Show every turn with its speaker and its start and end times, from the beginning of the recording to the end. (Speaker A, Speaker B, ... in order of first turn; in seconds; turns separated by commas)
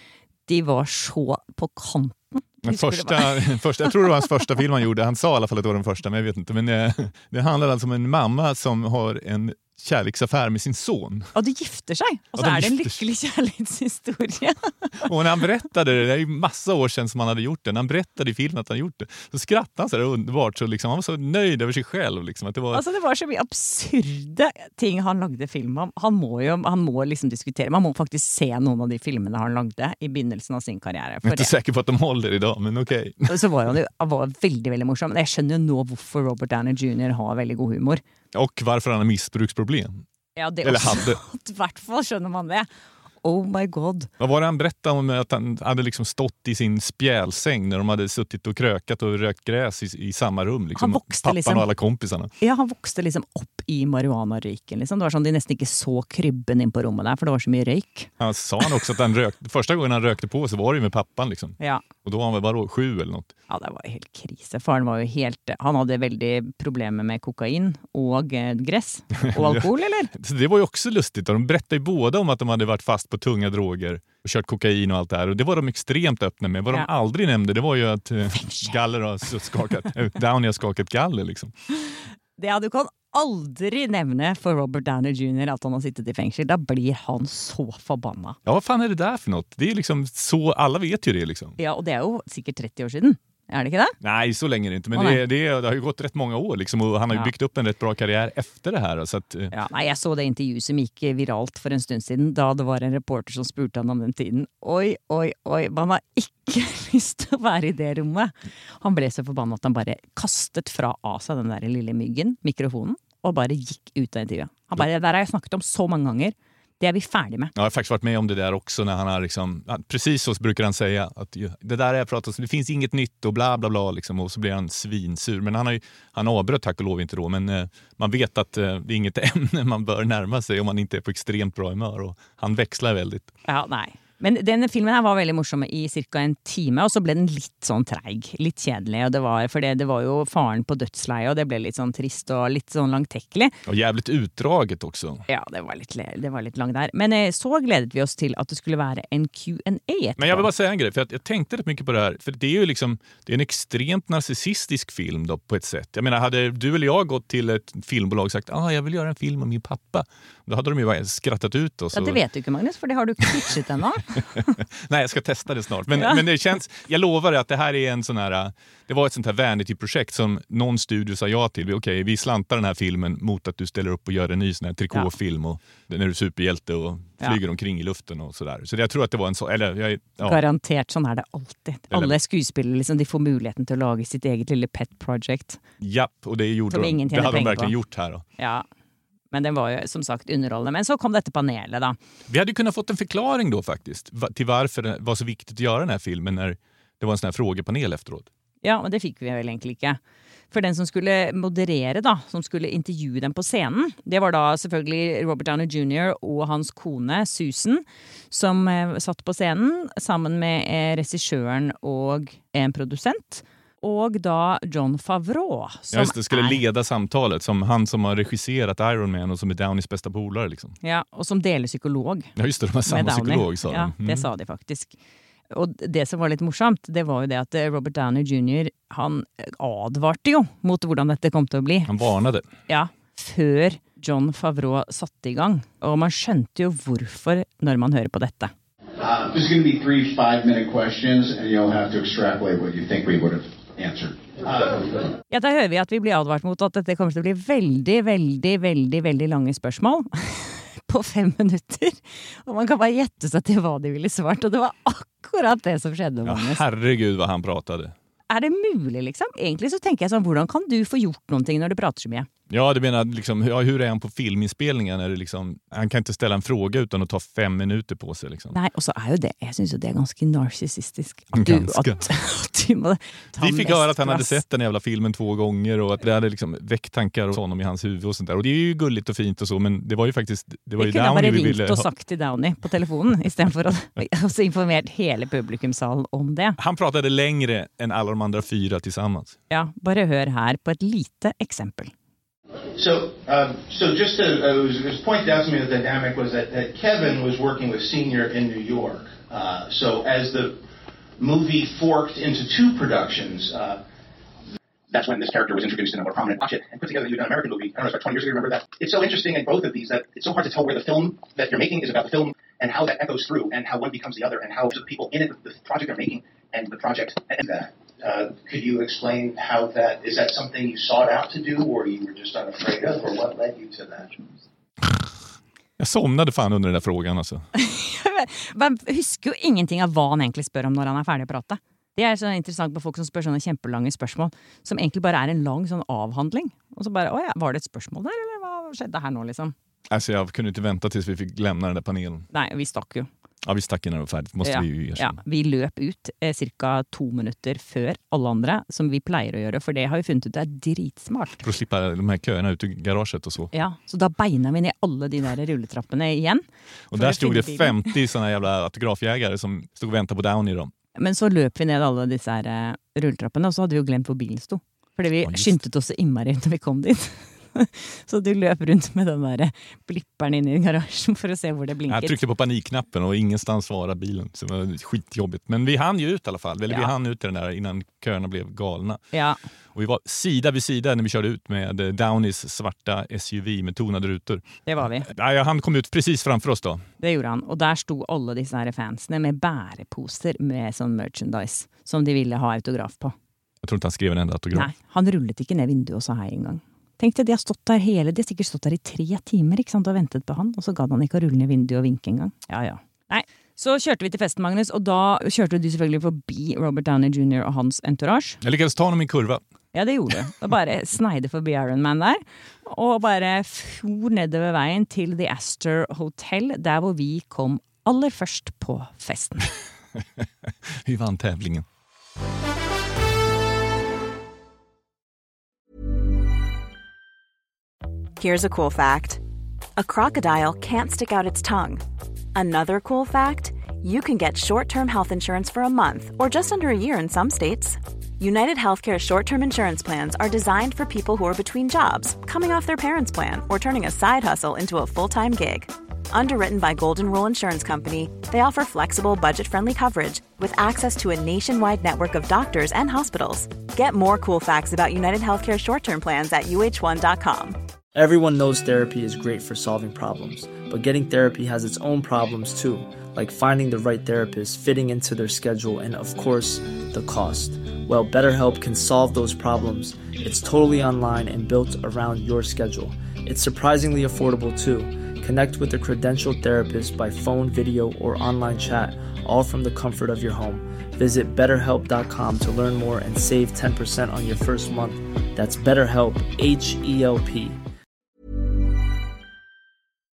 Speaker A: 0.5-4.0, Speaker B: 2.6-11.3, Speaker A: 11.3-15.1, Speaker B: 12.4-13.0, Speaker B: 15.0-22.8, Speaker A: 22.7-31.5, Speaker B: 31.2-33.5, Speaker A: 33.3-38.0, Speaker B: 38.3-40.0, Speaker A: 40.4-42.7, Speaker B: 40.6-41.2, Speaker A: 43.2-44.1, Speaker B: 44.2-52.3, Speaker A: 50.8-51.7, Speaker A: 52.4-58.1, Speaker B: 58.2-63.3, Speaker A: 63.5-70.1, Speaker B: 69.2-81.5, Speaker A: 78.3-78.7, Speaker A: 82.4-88.4, Speaker B: 88.5-91.6, Speaker A: 91.6-94.0, Speaker B: 94.0-99.5, Speaker A: 94.9-95.2, Speaker A: 99.5-117.5, Speaker B: 117.6-133.3, Speaker A: 133.4-143.6, Speaker B: 143.7-145.2, Speaker A: 145.3-150.5, Speaker B: 150.2-162.2, Speaker A: 161.9-164.5, Speaker B: 164.6-180.4, Speaker A: 165.9-166.2, Speaker A: 180.2-185.6, Speaker B: 181.9-182.2, Speaker B: 185.8-188.2, Speaker A: 186.7-187.7, Speaker A: 188.4-188.7, Speaker A: 189.3-192.0, Speaker B: 192.3-198.3, Speaker A: 198.6-200.0, Speaker A: 200.5-216.6, Speaker B: 215.9-220.8, Speaker A: 220.8-222.3, Speaker B: 222.4-224.2, Speaker A: 222.9-224.9, Speaker A: 225.5-231.9, Speaker B: 231.9-232.5, Speaker A: 232.7-238.5, Speaker C: 239.0-244.4, Speaker D: 244.4-244.8, Speaker A: 245.3-256.6, Speaker B: 256.2-257.9, Speaker A: 258.3-262.3, Speaker B: 262.5-268.6, Speaker A: 268.5-274.4, Speaker B: 271.3-272.0, Speaker B: 273.4-281.9, Speaker A: 280.8-286.6, Speaker B: 286.6-289.4, Speaker A: 289.5-291.9, Speaker D: 292.8-300.6, Speaker D: 301.2-303.8, Speaker D: 304.9-324.2, Speaker B: 325.8-327.4, Speaker A: 327.6-339.6, Speaker B: 339.9-342.3, Speaker A: 342.3-343.1, Speaker B: 343.4-345.2, Speaker A: 344.4-351.4, Speaker B: 351.4-353.5, Speaker A: 353.5-357.9, Speaker B: 356.9-360.7, Speaker A: 360.9-372.2, Speaker B: 365.2-365.6, Speaker B: 371.9-379.0, Speaker A: 379.1-379.4, Speaker B: 379.8-384.5, Speaker A: 384.7-385.1, Speaker B: 385.0-386.8, Speaker A: 387.0-393.1, Speaker B: 393.6-394.7, Speaker A: 394.5-408.4, Speaker B: 408.4-409.4, Speaker A: 409.7-419.5, Speaker B: 420.8-421.6, Speaker E: 428.2-429.2, Speaker E: 429.8-431.8, Speaker E: 432.3-457.6, Speaker F: 457.9-487.6